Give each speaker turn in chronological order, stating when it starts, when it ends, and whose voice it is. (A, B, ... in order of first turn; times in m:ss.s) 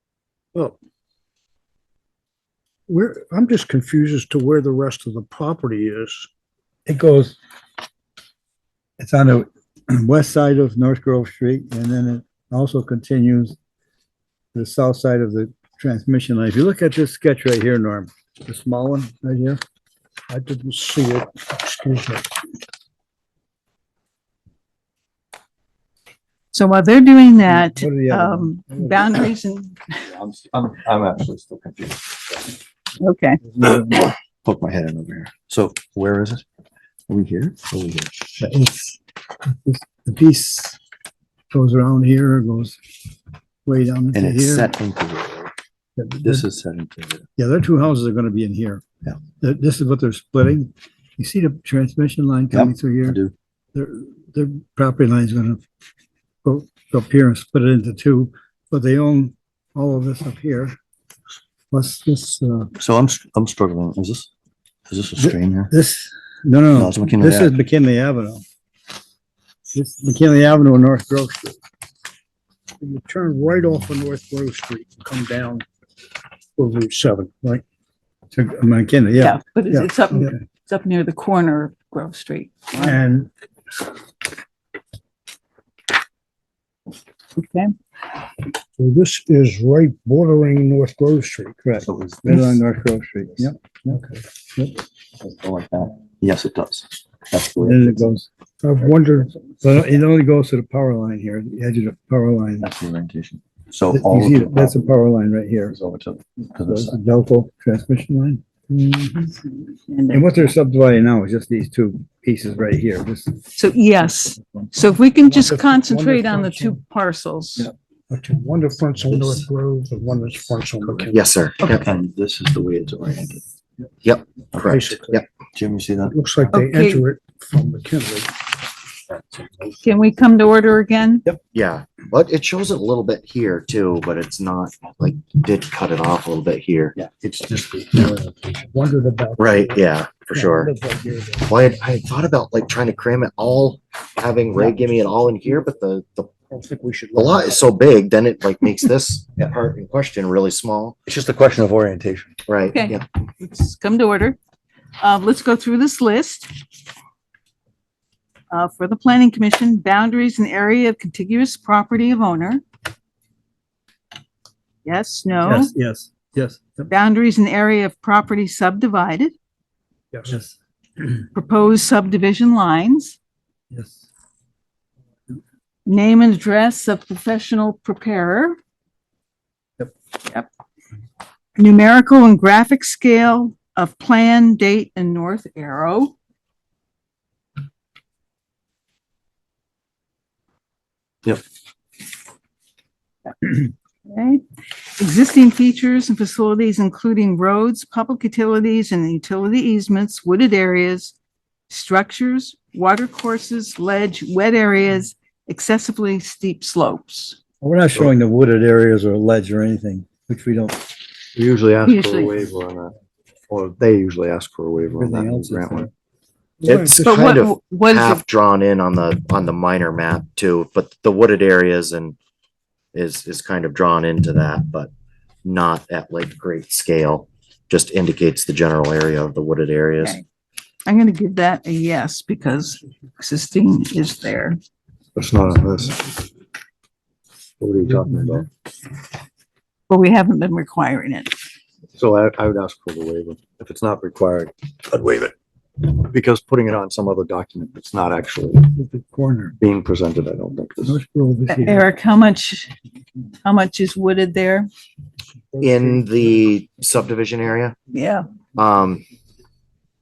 0:02.9-0:06.3 A
0:06.9-0:07.4 B
0:09.0-0:13.6 B
0:14.6-0:19.6 B
0:20.3-0:22.2 A
0:26.5-0:30.1 C
0:27.5-0:29.3 B
0:30.1-0:32.5 D
0:33.0-0:33.4 C
0:33.4-0:34.1 B
0:33.6-0:36.4 D
0:37.1-0:38.4 D
0:38.4-0:39.0 B
0:39.6-0:40.8 B
0:41.5-0:42.8 B
0:43.7-0:44.7 B
0:44.1-0:45.5 D
0:46.0-0:46.4 B
0:46.2-0:47.2 D
0:47.4-0:48.8 B
0:49.4-0:53.2 B
0:52.5-0:53.3 D
0:53.7-0:55.6 B
0:56.4-1:00.8 B
1:01.7-1:02.7 B
1:02.8-1:04.3 D
1:04.9-1:05.7 D
1:05.2-1:08.4 B
1:06.7-1:07.5 D
1:09.7-1:11.6 B
1:12.8-1:15.6 A
1:16.6-1:17.6 A
1:18.3-1:20.4 B
1:19.2-1:23.0 C
1:22.8-1:23.3 B
1:27.4-1:27.7 C
1:28.8-1:31.6 A
1:31.6-1:34.8 B
1:31.8-1:32.6 D
1:35.2-1:38.1 D
1:37.6-1:42.7 B
1:42.6-1:44.9 D
1:43.9-1:45.8 B
1:45.7-1:47.0 D
1:46.6-1:48.4 B
1:48.7-1:50.5 C
1:50.1-1:53.4 B
1:53.6-1:57.7 C
1:55.6-1:56.7 A
1:58.1-2:01.2 A
1:59.1-1:59.5 D
2:01.1-2:01.9 E
2:01.6-2:03.4 D
2:04.0-2:05.3 E
2:04.7-2:05.2 A
2:05.5-2:06.2 D
2:06.2-2:08.3 A
2:06.5-2:07.0 C
2:09.1-2:09.8 D
2:09.8-2:11.2 C
2:11.5-2:17.0 E
2:17.0-2:18.5 D
2:18.6-2:19.7 A
2:19.4-2:20.7 E
2:20.5-2:21.3 A
2:21.4-2:26.3 E
2:26.5-2:27.4 A
2:27.1-2:31.0 E
2:31.1-2:32.4 D
2:32.5-2:33.0 E
2:32.7-2:34.4 C
2:35.0-2:36.5 C
2:38.5-2:42.6 C
2:44.8-2:45.7 C
2:45.4-2:46.9 B
2:46.9-2:49.3 C
2:50.2-2:50.6 B
2:51.3-2:53.2 C
2:53.7-2:54.0 B
2:55.9-2:58.6 C
3:01.6-3:06.2 C
3:14.1-3:14.4 C
3:15.0-3:21.1 C
3:21.7-3:27.4 C
3:27.6-3:30.8 B
3:31.3-3:33.0 D
3:31.8-3:32.3 C
3:33.5-3:35.9 D
3:35.0-3:35.9 B
3:36.6-3:37.1 B
3:36.6-3:42.2 E
3:37.0-3:38.2 C
3:42.9-3:44.9 E
3:45.4-3:50.2 E
3:50.9-3:54.6 C
3:55.2-3:56.1 D
3:57.6-3:58.5 D
3:59.9-4:01.3 C
4:02.0-4:08.8 D
4:08.7-4:09.6 B
4:09.6-4:11.0 D
4:10.9-4:11.9 B
4:11.5-4:12.7 C
4:13.4-4:14.7 C
4:15.6-4:16.0 B
4:15.6-4:17.8 E
4:17.9-4:18.2 C
4:18.6-4:19.0 E